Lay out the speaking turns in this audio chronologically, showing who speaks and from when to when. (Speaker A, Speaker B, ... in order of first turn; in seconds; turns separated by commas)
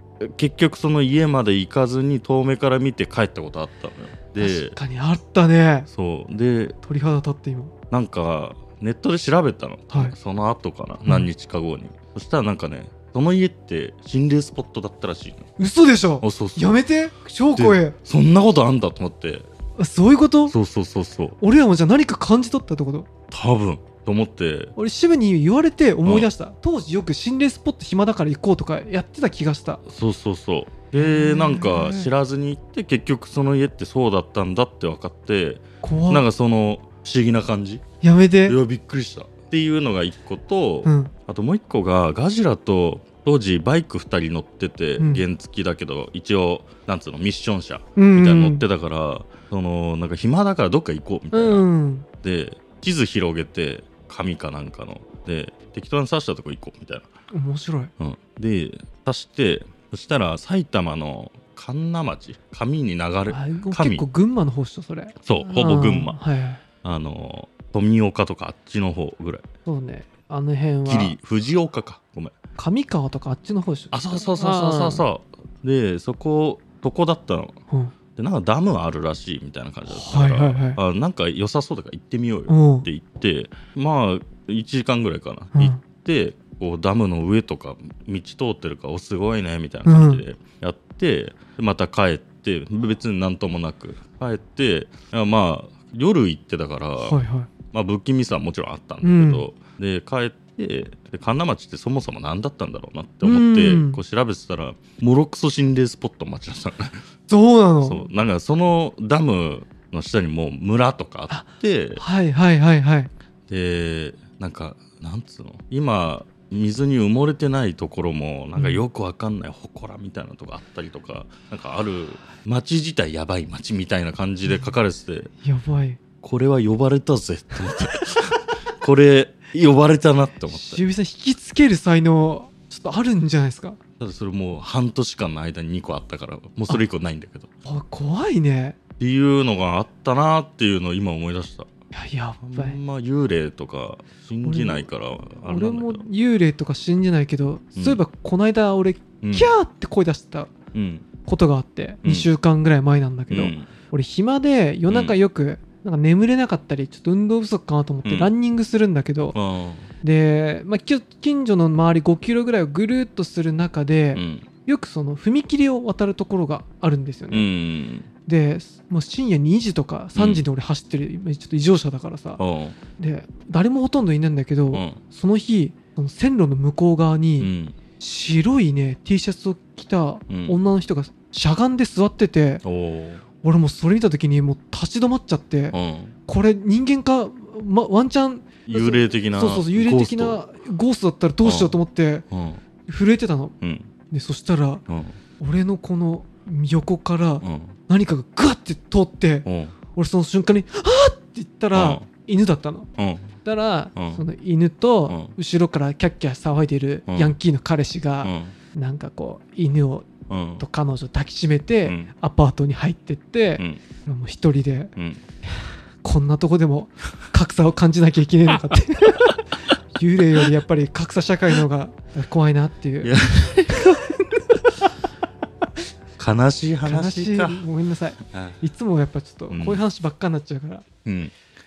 Speaker A: 0.2-4.8, Speaker B: 4.4-5.9, Speaker A: 5.9-6.8, Speaker B: 6.8-7.7, Speaker A: 7.9-15.5, Speaker B: 15.6-17.9, Speaker A: 16.2-16.8, Speaker A: 17.5-19.5, Speaker B: 19.8-20.5, Speaker A: 20.5-21.4, Speaker B: 21.4-23.1, Speaker A: 23.3-24.7, Speaker B: 24.8-29.8, Speaker A: 26.0-26.3, Speaker A: 29.9-37.8, Speaker B: 30.9-32.1, Speaker B: 35.8-36.2, Speaker B: 38.0-38.6, Speaker A: 38.5-51.7, Speaker B: 40.8-41.1, Speaker B: 48.0-48.6, Speaker B: 51.3-52.0, Speaker A: 52.2-57.1, Speaker B: 57.3-57.9, Speaker A: 58.0-64.0, Speaker B: 63.3-66.6, Speaker A: 65.2-66.2, Speaker A: 66.8-69.4, Speaker B: 69.7-71.2, Speaker A: 70.9-72.3, Speaker B: 72.6-75.0, Speaker A: 73.9-77.6, Speaker B: 77.7-77.9, Speaker A: 78.2-97.2, Speaker B: 79.9-80.8, Speaker B: 82.5-82.8, Speaker B: 85.5-85.8, Speaker B: 89.8-90.2, Speaker B: 97.0-97.5, Speaker A: 97.7-107.0, Speaker B: 99.0-99.5, Speaker B: 103.2-104.0, Speaker B: 107.3-108.1, Speaker A: 107.8-112.0, Speaker B: 111.3-113.1, Speaker A: 113.5-125.3, Speaker B: 118.5-118.8, Speaker B: 124.5-124.7, Speaker B: 125.4-126.0, Speaker A: 126.2-130.8, Speaker B: 130.5-133.8, Speaker A: 134.0-137.5, Speaker B: 137.7-138.8, Speaker A: 139.0-141.7, Speaker B: 141.9-142.8, Speaker A: 142.4-146.0, Speaker B: 144.4-144.9, Speaker B: 145.4-150.5, Speaker A: 147.8-148.0, Speaker A: 149.2-149.5, Speaker A: 150.7-151.1, Speaker B: 151.2-159.3, Speaker A: 153.3-153.7, Speaker A: 154.9-155.2, Speaker A: 158.0-158.3, Speaker A: 159.3-159.9, Speaker B: 160.0-167.5, Speaker A: 164.1-164.5, Speaker A: 167.3-168.1, Speaker B: 168.2-172.4, Speaker A: 170.1-170.4, Speaker A: 172.4-172.8, Speaker B: 173.0-182.6, Speaker A: 174.7-175.0, Speaker A: 177.4-177.8, Speaker A: 180.3-180.6, Speaker A: 182.6-183.2, Speaker B: 183.4-185.8, Speaker A: 185.7-186.1, Speaker B: 186.3-192.2, Speaker A: 188.7-190.4, Speaker A: 191.4-191.8, Speaker A: 192.3-192.6, Speaker B: 192.9-193.5, Speaker A: 193.6-193.9, Speaker B: 194.1-194.8, Speaker A: 194.9-195.2, Speaker B: 195.4-202.9, Speaker A: 197.4-197.7, Speaker A: 199.4-199.7, Speaker A: 201.7-202.0, Speaker A: 203.0-203.3, Speaker B: 203.4-210.1, Speaker A: 203.9-204.2, Speaker A: 207.1-207.3, Speaker A: 208.2-208.5, Speaker A: 210.3-210.6, Speaker B: 210.6-214.9, Speaker A: 211.8-212.1, Speaker B: 215.6-219.3, Speaker B: 219.9-224.2, Speaker A: 223.0-224.0, Speaker A: 226.2-227.6, Speaker B: 226.8-230.8, Speaker A: 228.3-228.6, Speaker A: 229.5-229.8, Speaker A: 231.0-231.3